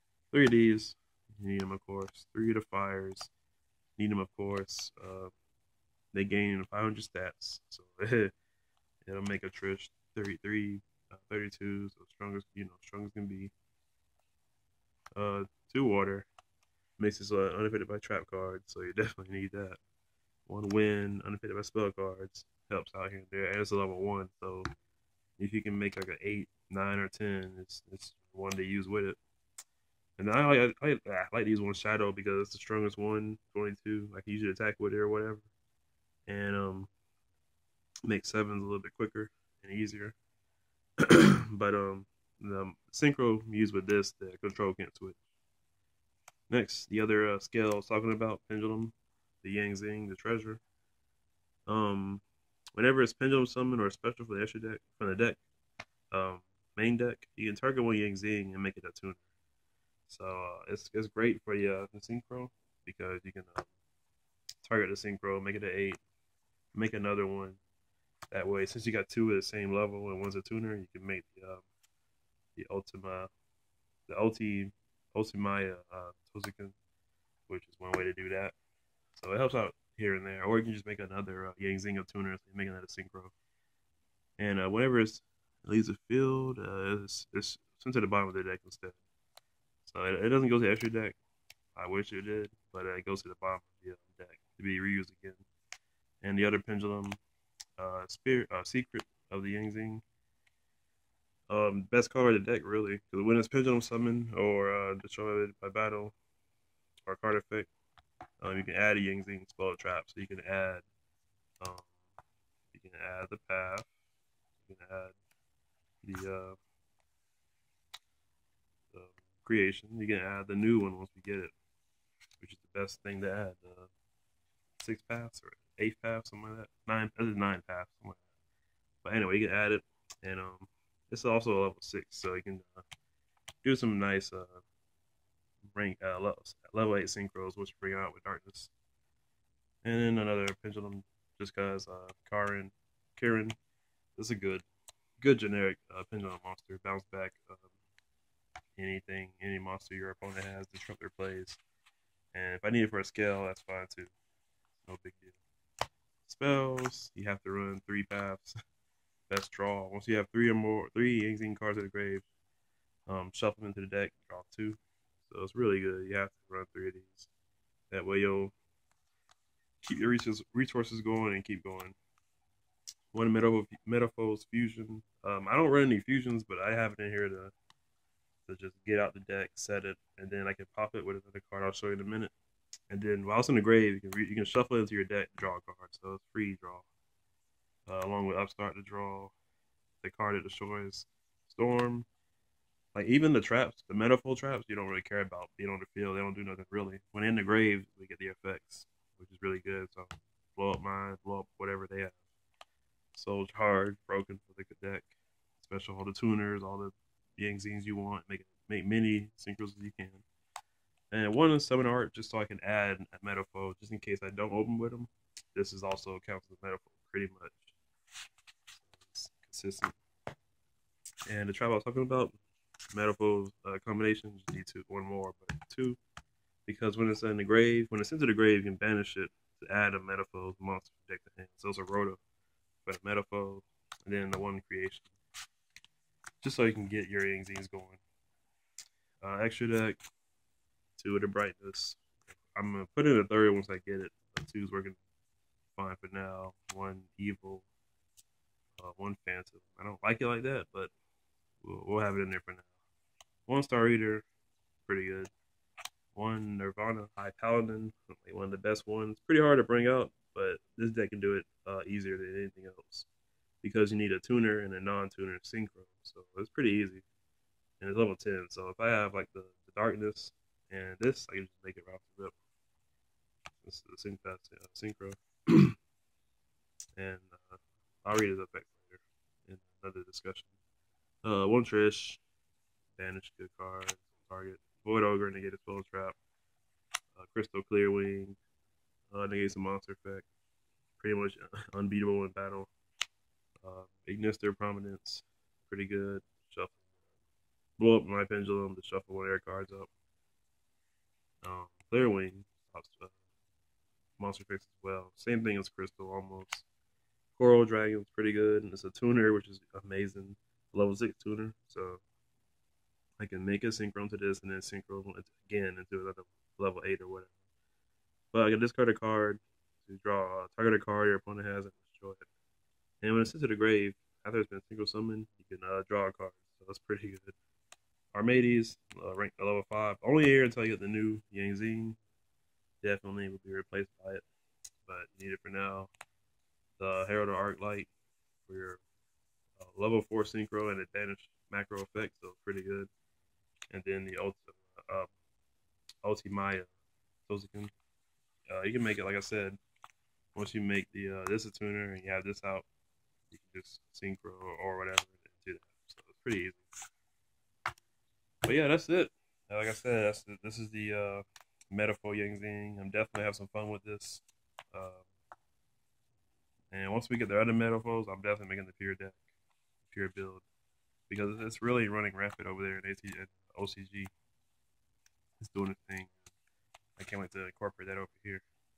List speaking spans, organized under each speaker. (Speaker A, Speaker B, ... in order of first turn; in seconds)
Speaker A: 0.3-3.3, 4.0-5.3, 6.1-8.3, 9.0-13.5, 15.2-16.3, 17.0-19.8, 20.5-24.7, 25.4-29.2, 30.2-35.5, 36.3-36.9, 38.1-40.1, 41.0-45.2, 46.5-50.6, 51.7-52.2, 52.8-55.4, 56.1-59.2, 60.1-63.7, 64.6-66.0, 66.7-67.6, 68.3-71.6, 72.5-73.3, 74.1-76.7, 77.5-78.5, 79.1-83.3, 84.4-89.0, 89.8-91.2, 91.7-95.4, 96.2-97.2, 97.8-100.0, 101.5-106.1, 107.1-107.7, 108.4-110.8, 111.6-111.9, 112.7-113.9, 114.6-115.1, 116.0-116.6, 118.9-121.5, 122.4-123.9, 124.8-128.2, 129.0-132.8, 133.6-134.6, 135.7-138.7, 139.8-143.6, 144.2-144.6, 145.2-147.7, 148.8-151.6, 152.3-154.1, 154.8-155.4, 156.2-158.5, 159.3-162.2, 163.1-167.3, 167.9-168.5, 169.8-171.9, 173.1-177.5, 178.4-182.3, 182.9-186.9, 187.9-189.3, 190.0-192.1, 192.9-202.2, 203.1-210.2, 211.1-217.7, 218.7-220.0, 221.3-222.4, 222.9-226.0, 226.7-232.2, 232.8-235.1, 236.4-238.0, 239.2-240.0, 241.0-242.0, 242.5-245.0, 245.7-247.7, 248.8-250.9, 251.6-252.7, 253.5-254.2, 254.8-255.3, 256.1-263.1, 263.6-267.0, 267.8-272.3, 273.6-275.7, 276.9-280.5, 281.2-282.2, 282.9-286.2, 287.1-288.4, 289.1-290.3, 291.0-292.7, 293.6-296.8, 297.8-299.9, 301.4-303.1, 304.2-306.6, 307.4-312.0, 313.2-317.3, 318.3-322.2, 323.0-327.3, 328.1-332.0, 332.8-334.2, 334.9-335.9, 336.8-337.9, 338.4-338.8, 339.6-342.9, 343.7-345.1, 346.0-346.7, 347.3-347.7, 348.5-349.6, 350.3-352.6, 353.3-356.6, 358.4-365.0, 366.7-369.2, 369.9-370.4, 371.1-374.1, 375.4-376.1, 377.0-378.4